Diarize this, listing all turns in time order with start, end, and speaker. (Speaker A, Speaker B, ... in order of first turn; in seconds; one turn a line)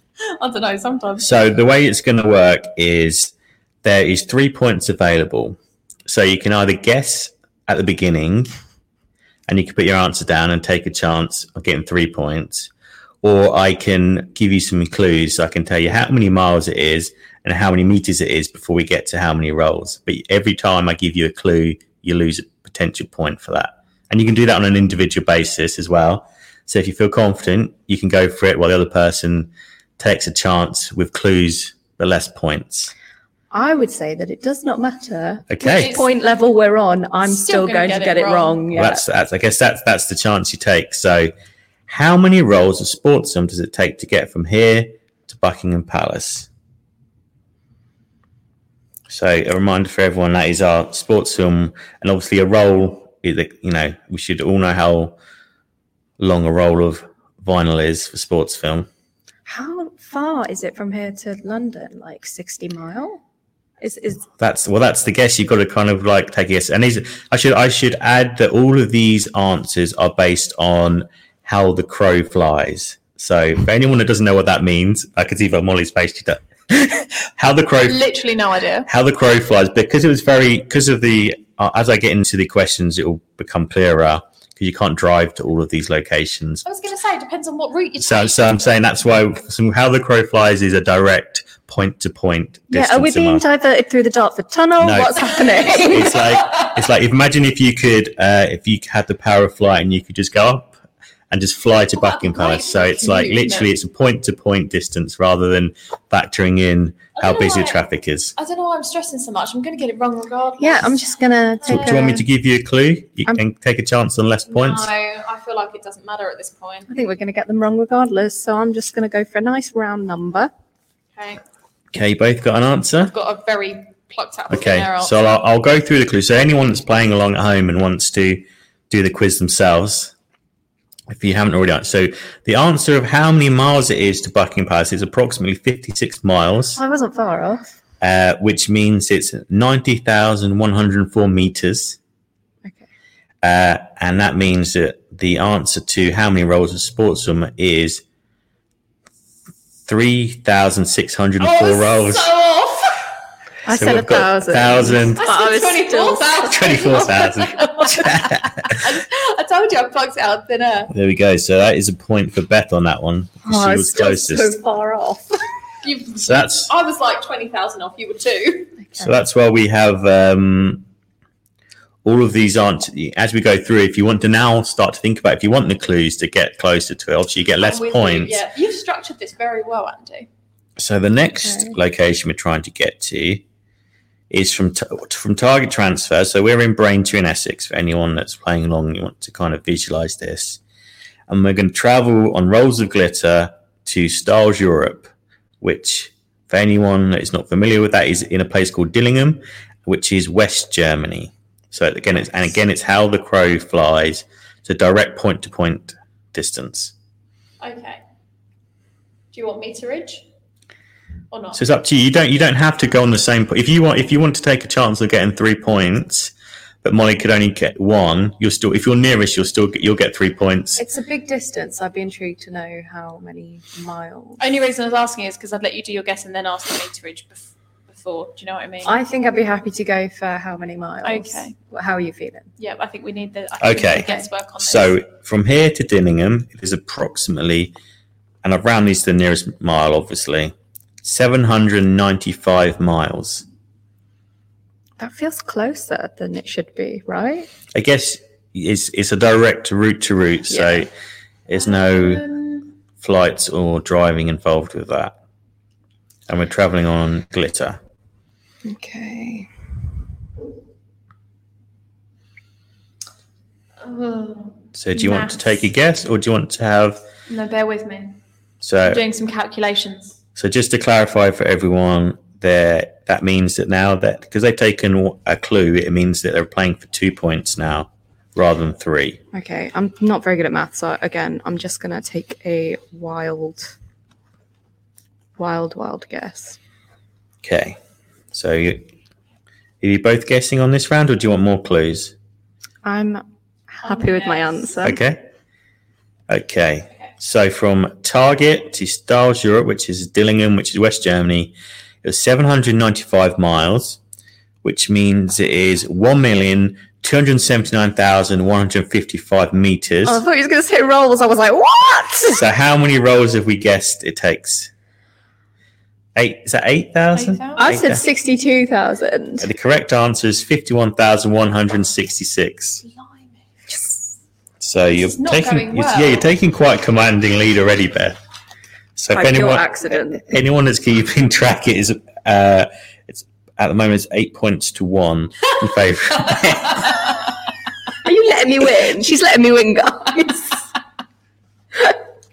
Speaker A: 0.3-1.3
Speaker B: 1.2-3.3
Speaker B: 3.8-8.5
Speaker B: 9.5-12.7
Speaker B: 13.2-32.9
Speaker C: 33.5-39.1
Speaker B: 35.5-36.0
Speaker A: 35.6-36.1
Speaker A: 37.2-38.6
Speaker B: 38.7-41.3
Speaker B: 41.9-46.5
Speaker B: 49.1-55.2
Speaker B: 56.2-58.9
Speaker C: 59.5-63.2
Speaker C: 63.8-64.3
Speaker B: 64.4-78.0
Speaker A: 77.8-78.9
Speaker B: 78.9-86.7
Speaker A: 86.7-88.6
Speaker B: 88.0-93.4
Speaker C: 92.7-96.2
Speaker B: 94.8-100.7
Speaker A: 95.8-96.7
Speaker B: 101.3-108.3
Speaker A: 101.9-103.7
Speaker A: 107.2-107.8
Speaker A: 108.4-111.2
Speaker C: 110.6-112.2
Speaker B: 111.7-114.9
Speaker A: 111.7-112.0
Speaker A: 114.5-116.9
Speaker C: 116.9-120.5
Speaker A: 121.2-121.4
Speaker B: 121.9-123.1
Speaker A: 123.1-125.3
Speaker B: 124.5-130.1
Speaker B: 131.1-136.8
Speaker C: 136.8-137.7
Speaker B: 138.0-142.0
Speaker B: 143.4-148.0
Speaker B: 149.9-152.3
Speaker A: 151.4-153.1
Speaker C: 153.7-157.0
Speaker B: 153.7-155.3
Speaker A: 155.2-160.9
Speaker B: 156.5-158.8
Speaker B: 160.9-164.6
Speaker C: 163.4-165.3
Speaker A: 165.8-168.8
Speaker B: 166.2-166.7
Speaker C: 168.8-169.1
Speaker B: 169.0-170.8
Speaker B: 172.0-178.4
Speaker A: 177.6-180.3
Speaker B: 180.8-183.4
Speaker B: 184.3-190.6
Speaker B: 191.3-206.9
Speaker A: 207.6-208.0
Speaker A: 209.3-210.2
Speaker A: 211.3-211.6
Speaker B: 211.6-220.8
Speaker C: 220.8-224.4
Speaker A: 224.4-229.0
Speaker C: 228.8-232.5
Speaker A: 231.0-231.5
Speaker A: 232.6-235.0
Speaker B: 233.6-234.1
Speaker B: 234.6-237.7
Speaker B: 238.4-243.4
Speaker C: 245.0-247.5
Speaker B: 247.7-250.9
Speaker C: 250.5-250.8
Speaker B: 251.5-252.2
Speaker A: 251.6-252.7
Speaker B: 253.0-255.2
Speaker B: 256.3-257.8
Speaker C: 258.6-259.5
Speaker A: 263.8-265.6
Speaker B: 264.8-267.0
Speaker A: 267.3-268.2
Speaker B: 268.6-269.1
Speaker A: 268.9-270.2
Speaker B: 270.4-279.2
Speaker C: 279.3-283.8
Speaker C: 285.4-286.6
Speaker B: 287.4-287.8
Speaker B: 288.3-288.9
Speaker B: 289.8-292.1
Speaker C: 292.8-295.0
Speaker A: 293.9-294.7
Speaker B: 294.8-295.3
Speaker B: 296.3-304.0
Speaker B: 304.6-310.2
Speaker C: 310.0-312.4
Speaker B: 312.3-314.7
Speaker B: 316.2-318.0
Speaker A: 317.1-317.8
Speaker C: 317.6-319.5
Speaker B: 319.4-322.8
Speaker A: 322.8-323.3
Speaker B: 324.6-328.2
Speaker A: 324.9-326.3
Speaker B: 329.0-337.0
Speaker C: 329.1-330.2
Speaker C: 338.0-340.6